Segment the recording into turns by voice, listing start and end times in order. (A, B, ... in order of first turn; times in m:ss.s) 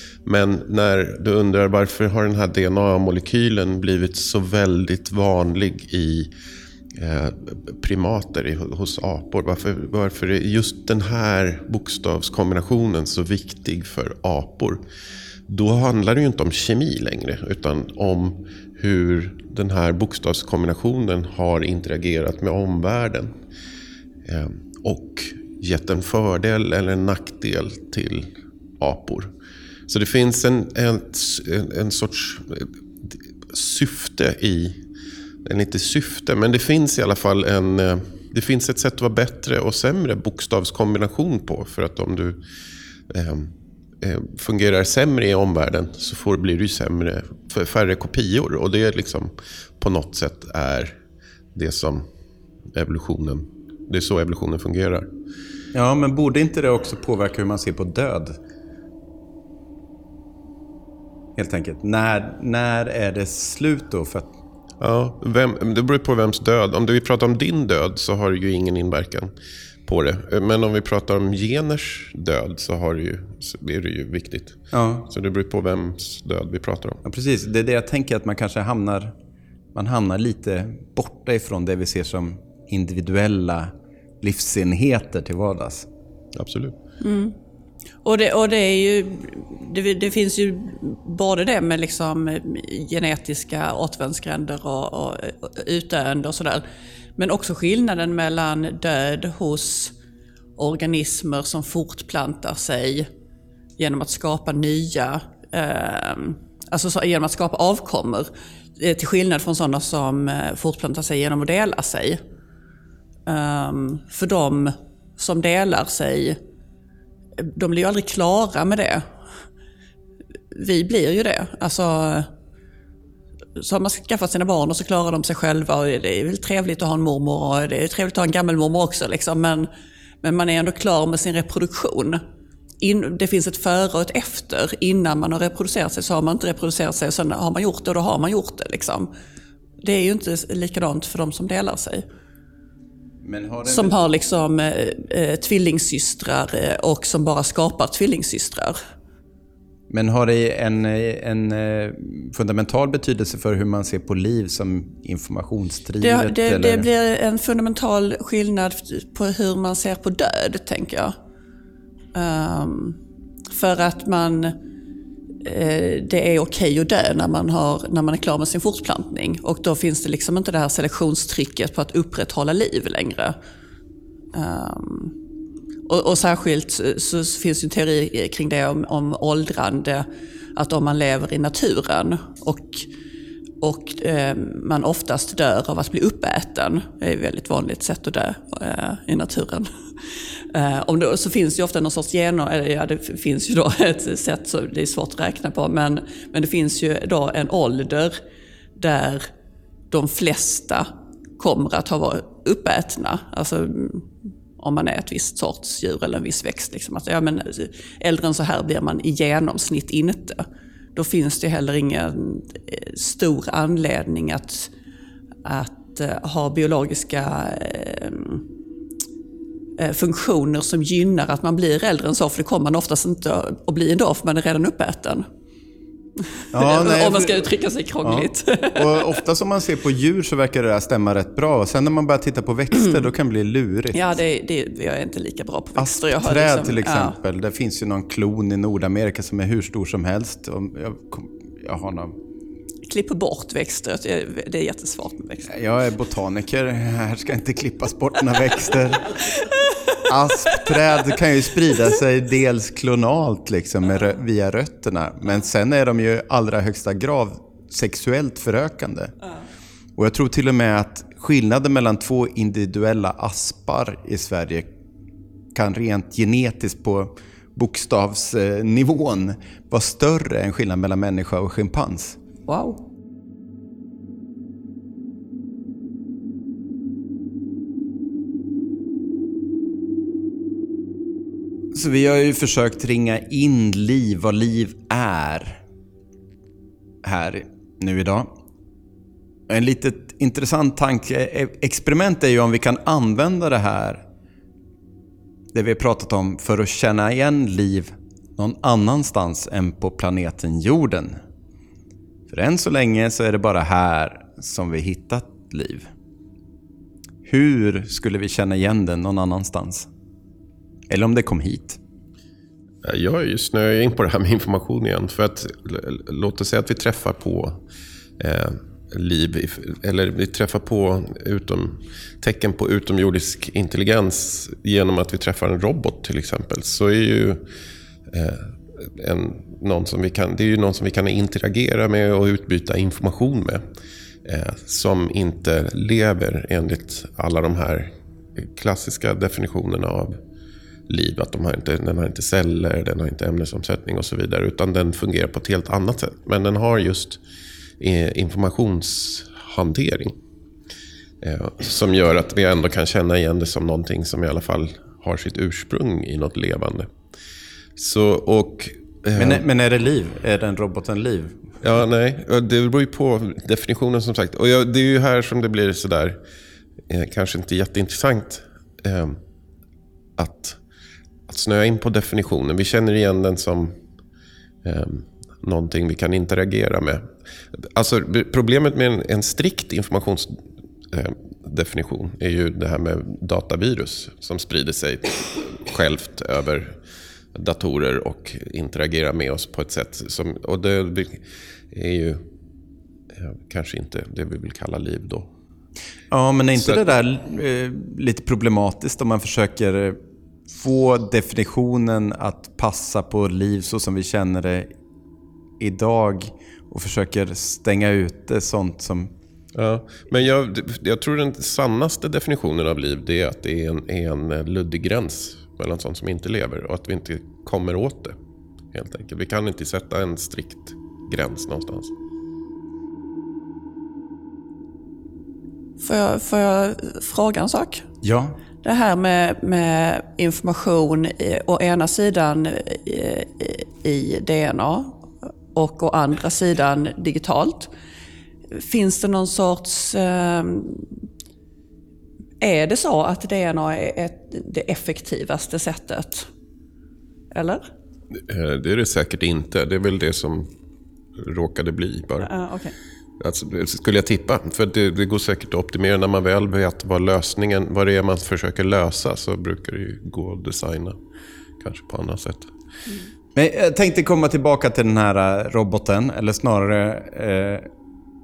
0:00.2-0:06.3 A
0:07.0-0:14.8 A
0:15.5-0:23.3 A
0:24.2-0:29.3 A
0:29.9-0:34.8 A
0:35.4-0:42.4 A
0:43.1-0:51.0 A
0:51.5-0:52.1 A
0:52.7-0:55.1 A
0:55.7-0:58.4 B
1:01.4-1:04.4 B
1:04.8-1:09.3 A
1:09.9-1:17.0 A
1:14.7-1:15.1 B
1:17.0-1:19.1 B
1:19.7-1:25.9 B
1:26.4-1:26.8 A
1:27.0-1:27.4 C
1:28.0-1:36.6 C
1:37.2-1:39.9 C
1:40.6-1:43.1 C
1:43.8-1:52.2 C
1:53.3-1:56.4 C
1:57.4-1:59.0 C
2:00.5-2:02.3 C
2:03.6-2:09.7 C
2:10.2-2:12.2 C
2:12.8-2:19.1 C
2:19.8-2:22.0 C
2:23.2-2:23.9 B
2:23.7-2:28.8 C
2:29.9-2:36.9 B
2:36.0-2:41.1 C
2:42.1-2:43.0 C
2:43.5-2:44.6 C
2:45.4-2:53.4 C
2:54.3-2:55.1 C
2:55.9-3:02.9 C
3:03.6-3:09.7 C
3:10.5-3:18.2 C
3:18.8-3:19.3 C
3:19.9-3:30.4 C
3:31.0-3:34.7 C
3:35.4-3:38.4 C
3:39.8-3:45.2 C
3:46.4-3:49.2 C
3:46.5-3:47.5 B
3:48.0-3:54.2 B
3:53.9-3:57.2 C
3:55.8-4:02.2 B
4:02.8-4:05.5 C
4:05.5-4:09.2 B
4:10.0-4:19.1 B
4:20.0-4:24.7 B
4:25.5-4:32.2 B
4:32.5-4:32.8 C
4:41.7-4:45.6 B
4:47.0-4:48.3 B
4:49.5-4:54.0 B
4:55.5-5:01.2 B
5:02.3-5:05.9 B
5:07.2-5:09.9 B
5:10.9-5:11.8 B
5:12.8-5:17.6 A
5:18.2-5:27.5 A
5:28.1-5:33.6 A
5:34.2-5:40.2 A
5:40.9-5:47.2 A
5:47.8-5:50.2 A
5:51.2-5:56.9 A
5:57.8-5:59.4 A
5:59.2-6:01.4 B
6:01.6-6:06.2 A
6:06.9-6:09.2 A
6:10.2-6:10.6 A
6:11.3-6:13.8 A
6:14.6-6:20.4 A
6:20.9-6:26.8 A
6:27.3-6:32.2 A
6:33.2-6:35.3 A
6:36.1-6:44.7 B
6:45.6-6:49.1 B
6:49.5-6:58.2 A
6:58.7-7:01.9 A
7:05.8-7:07.9 C
7:08.0-7:08.4 B
7:08.6-7:17.7 C
7:18.5-7:21.0 C
7:22.4-7:26.3 C
7:27.3-7:27.7 C
7:28.2-7:30.5 A
7:31.2-7:32.3 A
7:32.2-7:32.8 C
7:33.2-7:41.0 A
7:41.6-7:42.5 A
7:43.4-7:47.7 B